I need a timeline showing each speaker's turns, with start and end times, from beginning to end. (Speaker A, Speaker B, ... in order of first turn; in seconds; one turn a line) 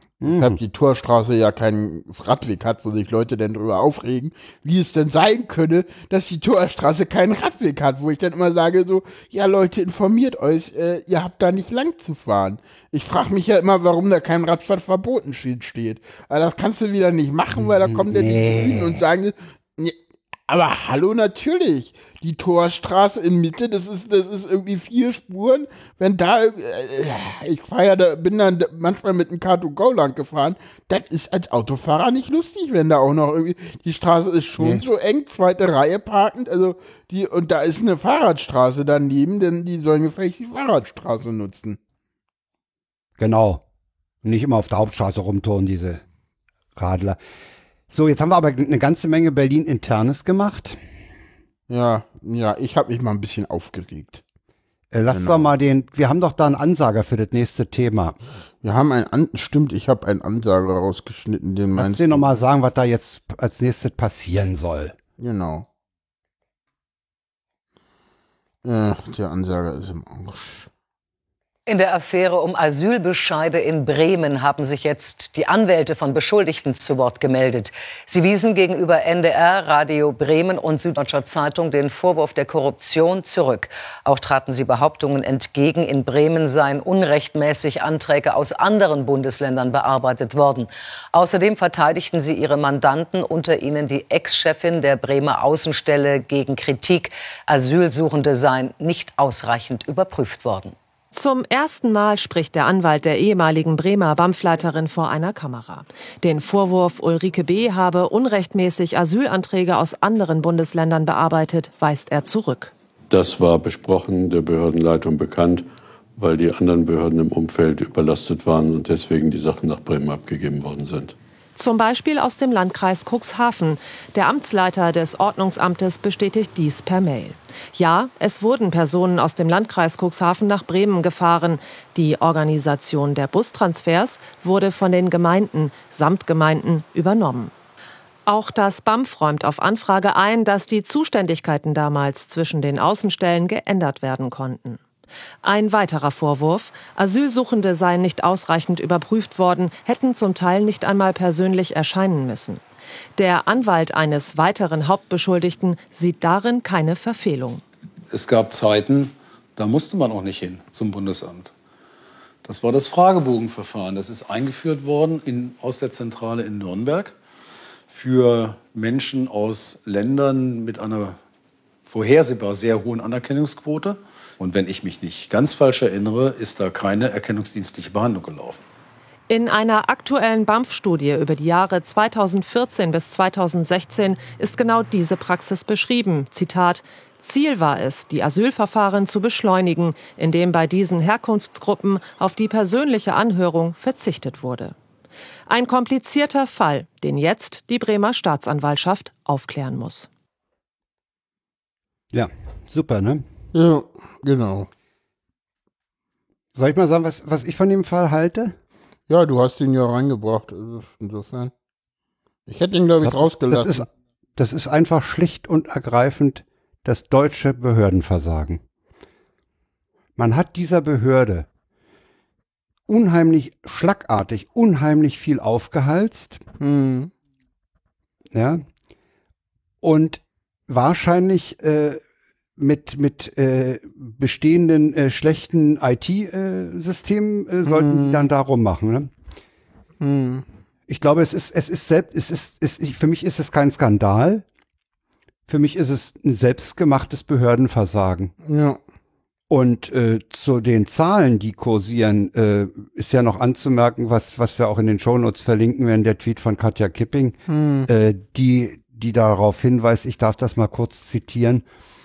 Speaker A: 0.2-0.6
Speaker B: 0.2-20.0
Speaker A: 17.6-19.0
Speaker B: 20.5-41.8
Speaker A: 34.6-34.8
Speaker A: 43.2-43.6
Speaker A: 44.2-46.0
Speaker A: 46.8-47.2
Speaker A: 47.9-50.8
Speaker B: 51.7-54.2
Speaker A: 54.9-58.1
Speaker B: 55.1-55.5
Speaker B: 58.6-62.3
Speaker A: 61.8-65.0
Speaker B: 65.2-65.7
Speaker B: 68.6-70.7
Speaker C: 71.7-100.7
Speaker D: 101.1-112.7
Speaker E: 113.1-121.1
Speaker D: 121.5-137.5
Speaker D: 138.2-144.8
Speaker D: 145.4-152.6
Speaker D: 153.2-157.6
Speaker F: 158.1-161.5
Speaker F: 162.4-167.1
Speaker F: 167.9-171.2
Speaker F: 171.8-178.6
Speaker D: 179.3-194.7
Speaker D: 195.5-200.1
Speaker A: 202.1-203.2
Speaker B: 203.5-204.7
Speaker A: 206.5-208.6
Speaker B: 209.1-211.5
Speaker B: 212.5-213.9
Speaker A: 213.0-213.8
Speaker A: 214.4-218.6
Speaker A: 220.2-221.5
Speaker A: 222.9-226.4
Speaker B: 226.6-227.1
Speaker A: 228.3-228.6
Speaker A: 229.8-232.0
Speaker A: 232.6-239.1
Speaker B: 237.7-238.2
Speaker B: 240.0-240.4
Speaker A: 240.9-244.4
Speaker A: 245.5-248.3
Speaker B: 248.4-248.8
Speaker A: 249.5-261.6
Speaker B: 257.5-257.9